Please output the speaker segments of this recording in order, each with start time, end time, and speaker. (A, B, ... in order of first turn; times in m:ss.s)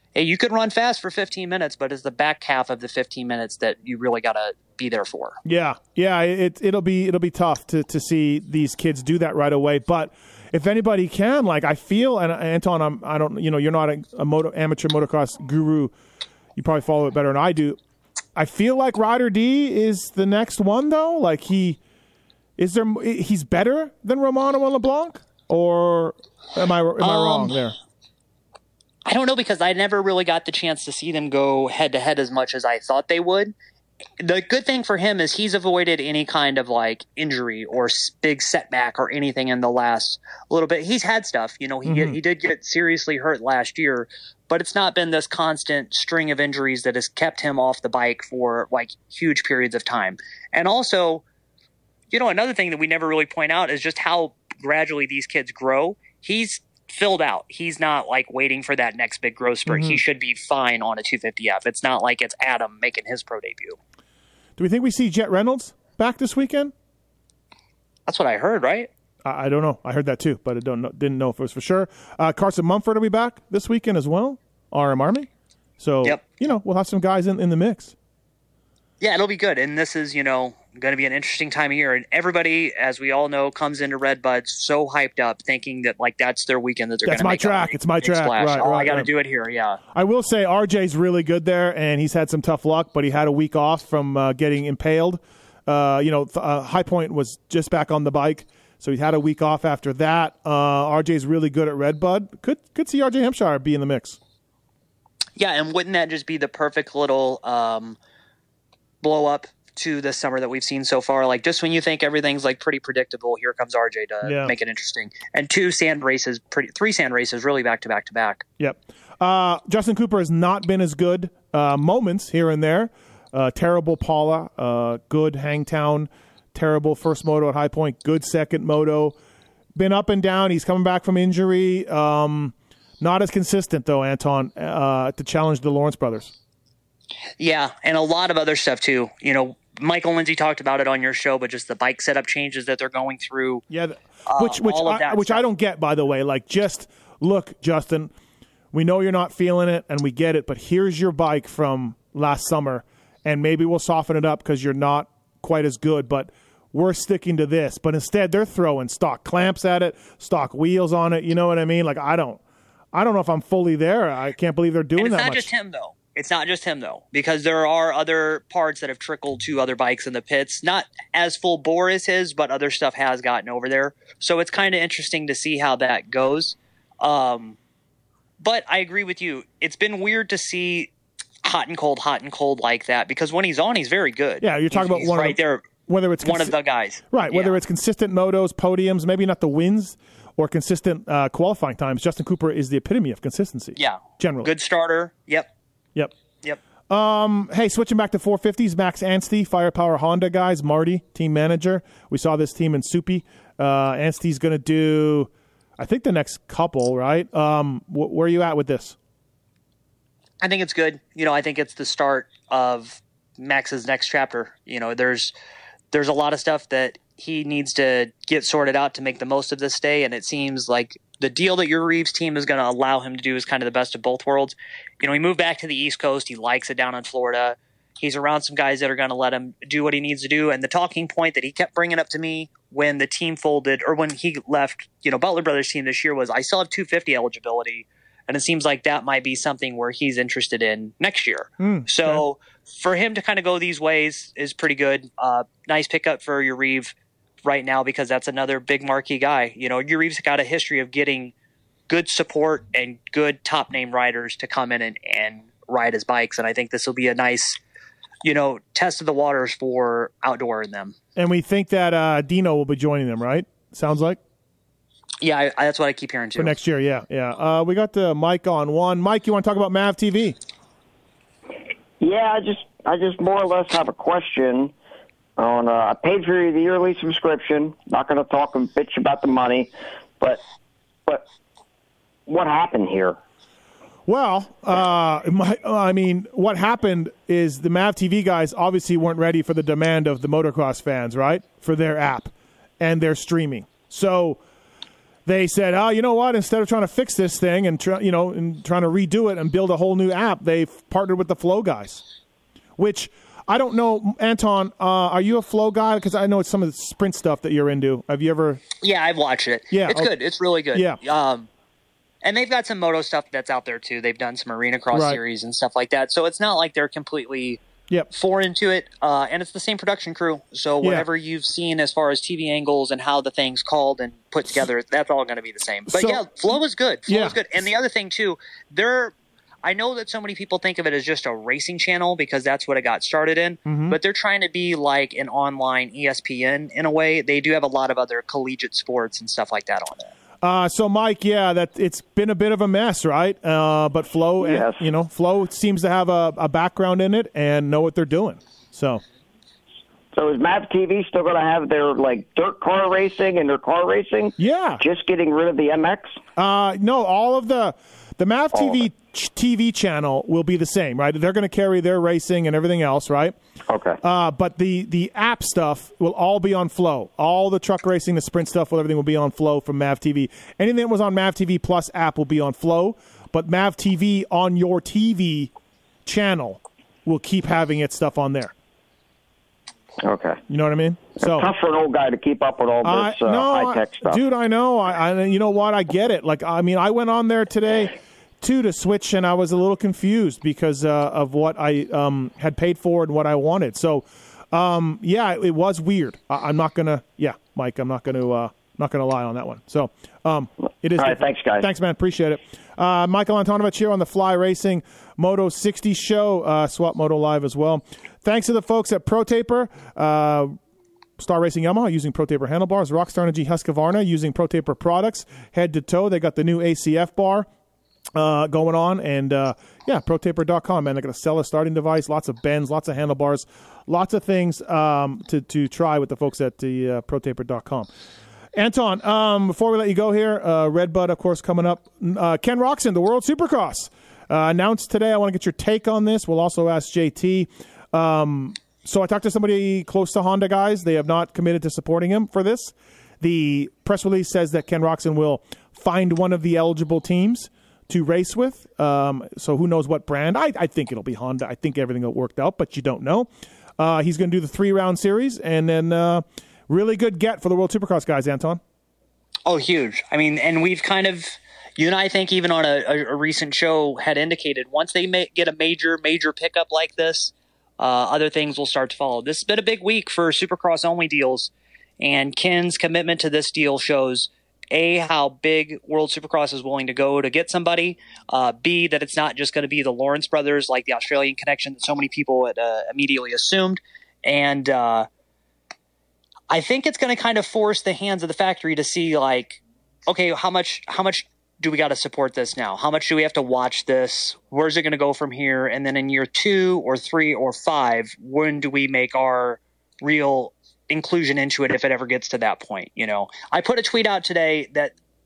0:00.1-0:05.4 A
0:05.4-0:15.9 B
0:16.6-0:17.8 B
0:18.4-0:21.8 B
0:22.6-0:27.7 B
0:27.0-0:27.6 A
0:29.0-0:33.5 A
0:34.2-0:51.2 A
0:41.8-0:42.2 B
0:52.1-1:03.8 A
0:59.7-1:00.0 B
1:04.6-1:06.7 B
1:08.0-1:08.9 A
1:09.2-1:15.3 B
1:15.8-1:17.9 B
1:19.0-1:29.8 A
1:27.0-1:29.1 B
1:29.9-1:44.2 B
1:45.4-1:48.0 A
1:49.0-1:58.4 A
1:54.2-1:54.5 B
1:58.6-2:09.2 B
2:09.7-2:16.3 B
2:17.4-2:23.6 A
2:23.7-2:28.1 B
2:24.3-2:25.4 A
2:28.7-2:42.4 B
2:42.9-2:45.5 B
2:45.0-2:57.6 A
2:58.4-3:00.9 A
3:01.4-3:05.7 A
3:04.4-3:06.6 B
3:06.2-3:07.6 A
3:07.1-3:14.5 B
3:13.8-3:15.5 A
3:16.9-3:29.0 B
3:30.4-3:35.3 A
3:35.9-4:11.3 A
4:01.6-4:02.2 B
4:11.9-4:17.6 A
4:18.2-4:21.0 A
4:21.2-4:24.2 B
4:25.2-4:26.6 A
4:26.4-4:30.4 B
4:32.0-4:34.7 C
4:35.4-4:40.4 C
4:42.3-4:43.2 C
4:44.1-4:54.4 B
4:55.2-5:02.0 B
5:02.8-5:08.6 B
5:08.8-5:11.5 A
5:09.7-5:10.1 B
5:10.7-5:11.0 B
5:12.2-5:17.6 A
5:14.9-5:15.2 B
5:18.1-5:40.1 A
5:20.8-5:21.1 B
5:25.9-5:26.2 B
5:27.1-5:27.4 B
5:33.6-5:34.0 B
5:40.4-5:49.0 B
5:44.4-5:44.8 C
5:50.1-5:56.2 C
5:54.4-5:54.8 B
5:56.4-6:03.4 B
5:58.5-5:58.8 C
6:03.7-6:04.0 C
6:04.0-6:15.5 B
6:16.0-6:18.5 B
6:20.0-6:20.4 C
6:20.5-6:21.5 B
6:21.2-6:24.2 C
6:22.8-6:50.6 B
6:41.0-6:41.7 C
6:51.2-6:57.5 B
6:58.1-7:07.9 B
7:08.5-7:38.6 B
7:39.4-8:05.1 A
8:06.5-8:24.9 A